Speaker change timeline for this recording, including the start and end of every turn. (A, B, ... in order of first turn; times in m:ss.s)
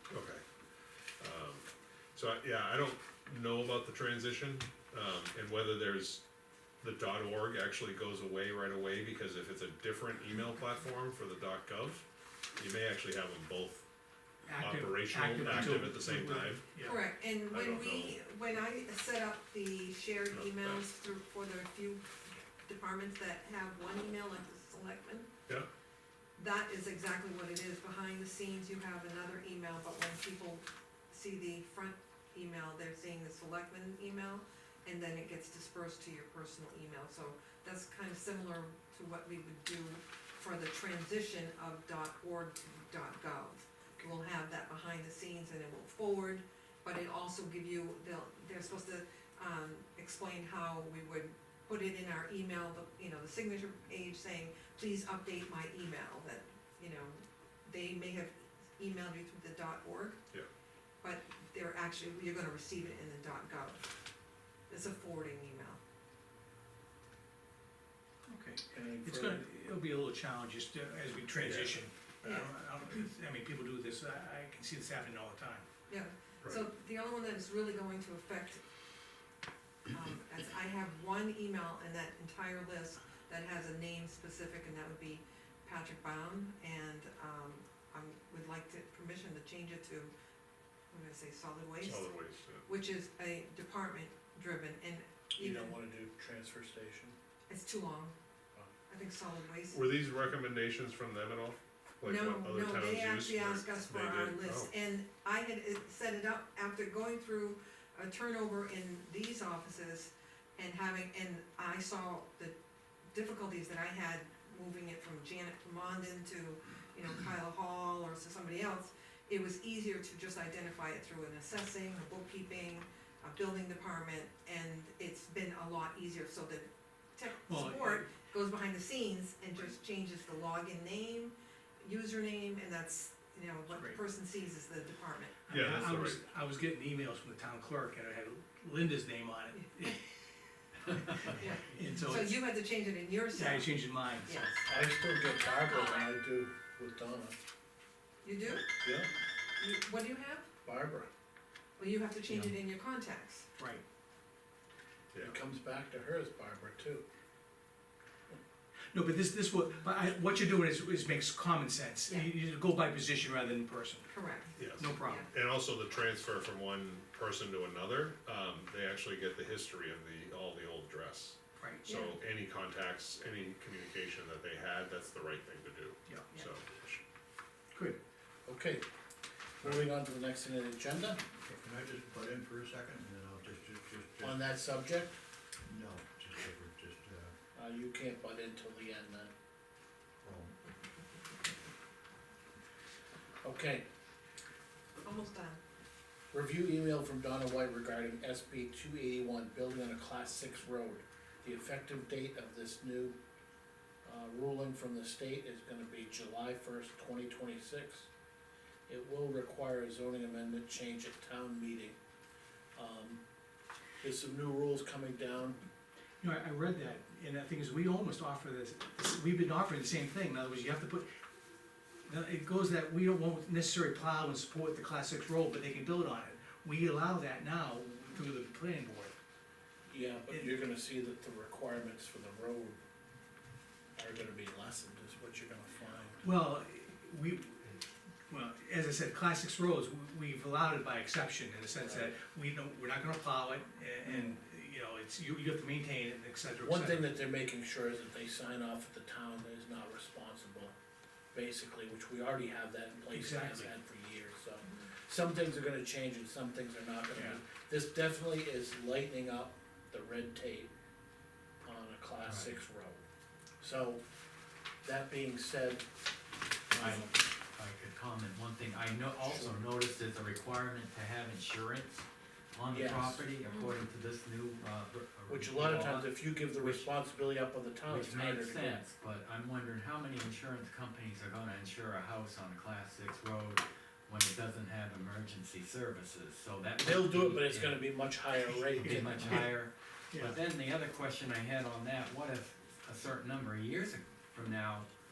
0:00.1-0:00.4 A
0:01.2-0:06.2 A
0:06.8-0:12.0 A
0:12.6-0:13.8 A
0:14.5-0:17.0 B
0:14.5-0:16.6 A
0:16.8-0:25.3 C
0:17.4-0:18.2 A
0:20.3-0:20.8 A
0:26.4-1:00.2 C
1:01.0-1:03.8 C
1:04.7-1:05.8 C
1:08.3-1:15.7 B
1:08.7-1:09.4 D
1:11.4-1:11.8 A
1:12.2-1:12.6 C
1:15.9-1:18.6 C
1:19.9-1:30.1 C
1:30.9-1:35.8 C
1:31.8-1:32.6 A
1:35.4-1:37.2 D
1:37.5-1:38.1 C
1:38.9-1:39.8 C
1:39.7-1:44.7 A
1:42.0-1:52.6 C
1:53.1-2:15.4 C
2:07.5-2:08.1 B
2:13.7-2:14.0 B
2:15.5-2:20.0 B
2:15.5-2:16.2 A
2:21.3-2:24.7 C
2:21.7-2:22.4 B
2:23.3-2:24.4 B
2:24.7-2:27.4 D
2:28.2-2:28.7 C
2:28.7-2:29.1 D
2:29.6-2:30.5 C
2:30.6-2:31.1 D
2:31.8-2:33.5 C
2:33.6-2:33.8 B
2:35.2-2:37.0 D
2:38.9-2:44.1 B
2:44.1-2:45.3 C
2:44.6-2:57.0 A
2:44.8-2:45.3 B
2:51.6-2:51.8 B
2:51.9-2:52.2 C
2:57.7-2:58.0 B
2:58.5-2:58.8 D
2:59.6-3:01.2 D
3:01.4-3:04.4 E
3:04.2-3:05.2 D
3:05.6-3:07.3 E
3:07.6-3:09.3 D
3:10.2-3:10.6 E
3:13.4-3:13.8 D
3:15.0-3:15.6 C
3:16.3-3:23.2 D
3:24.0-3:28.1 D
3:28.9-3:32.0 D
3:32.8-3:33.2 D
3:34.0-3:35.6 D
3:36.2-3:41.1 B
3:42.0-3:49.1 B
3:49.9-3:52.8 D
3:54.0-3:56.3 D
3:56.2-4:07.1 B
4:01.8-4:02.2 D
4:04.1-4:04.4 D
4:06.6-4:10.7 D
4:11.3-4:20.7 D
4:13.1-4:13.7 B
4:14.6-4:14.9 C
4:21.6-4:23.0 D
4:22.2-4:22.6 F
4:23.6-4:24.0 D
4:24.8-4:25.8 D
4:26.7-4:27.1 D
4:26.7-4:36.9 F
4:29.2-4:29.6 D
4:32.7-4:33.3 D
4:33.4-4:33.8 C
4:35.3-4:38.8 D
4:37.8-4:47.9 F
4:46.8-4:49.3 D
4:48.8-4:54.9 F
4:48.8-4:50.4 B